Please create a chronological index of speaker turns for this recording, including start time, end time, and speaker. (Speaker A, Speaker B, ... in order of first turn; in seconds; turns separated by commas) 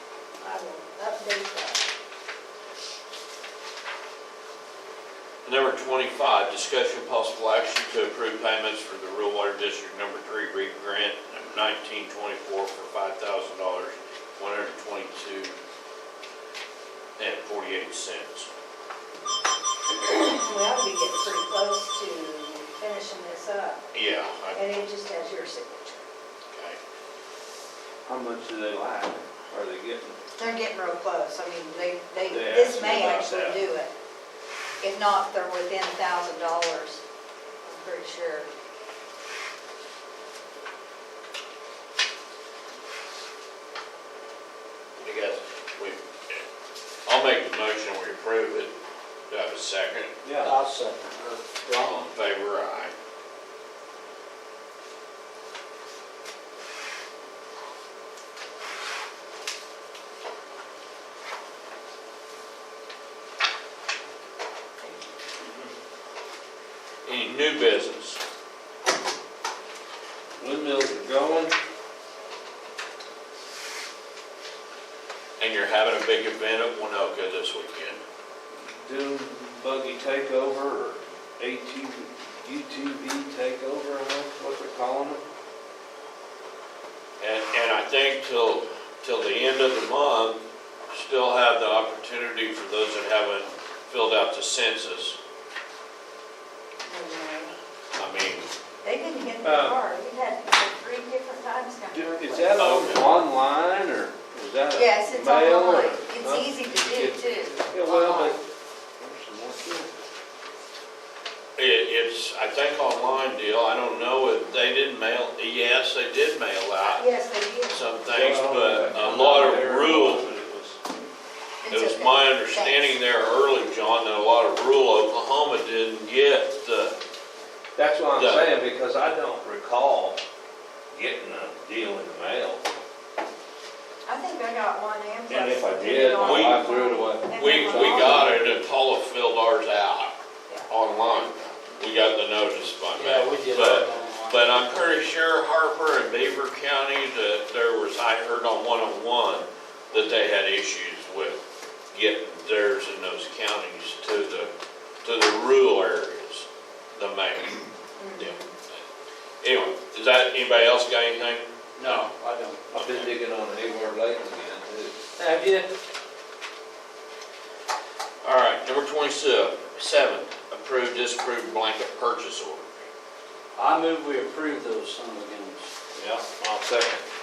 Speaker A: 0.4-1.9, Speaker B: 5.5-15.5, Speaker B: 17.2-18.5, Speaker A: 19.9-23.8, Speaker B: 23.9-24.9, Speaker A: 24.5-26.0, Speaker B: 26.5-26.8, Speaker C: 28.1-30.2, Speaker A: 30.4-33.9, Speaker C: 32.2-33.7, Speaker A: 34.8-37.0, Speaker A: 37.6-38.5, Speaker B: 45.0-46.4, Speaker B: 47.1-48.7, Speaker B: 49.3-50.1, Speaker C: 50.2-50.5, Speaker D: 50.4-52.1, Speaker B: 51.8-52.9, Speaker B: 67.0-68.2, Speaker C: 70.4-71.5, Speaker B: 75.4-78.0, Speaker C: 78.6-85.2, Speaker B: 87.2-95.2, Speaker A: 96.9-97.5, Speaker B: 98.0-98.5, Speaker A: 98.8-102.8, Speaker C: 99.4-99.8, Speaker C: 101.9-108.4, Speaker B: 102.6-103.1, Speaker A: 104.7-108.4, Speaker C: 109.0-109.9, Speaker B: 111.6-117.0, Speaker A: 117.0-117.9, Speaker B: 117.7-120.3, Speaker C: 118.1-120.8, Speaker A: 121.6-123.0, Speaker B: 121.7-127.0, Speaker C: 127.8-130.2, Speaker B: 128.1-128.5, Speaker C: 130.9-132.6, Speaker A: 134.1-138.4, Speaker C: 135.3-138.4, Speaker B: 136.2-136.7, Speaker B: 137.3-140.1, Speaker B: 140.7-154.5, Speaker D: 142.9-144.7, Speaker B: 155.0-158.8, Speaker A: 158.0-158.5, Speaker B: 159.4-162.1, Speaker D: 161.8-163.1, Speaker C: 162.7-165.0, Speaker D: 165.2-165.7, Speaker B: 168.2-172.9, Speaker D: 173.6-175.7, Speaker C: 175.9-177.0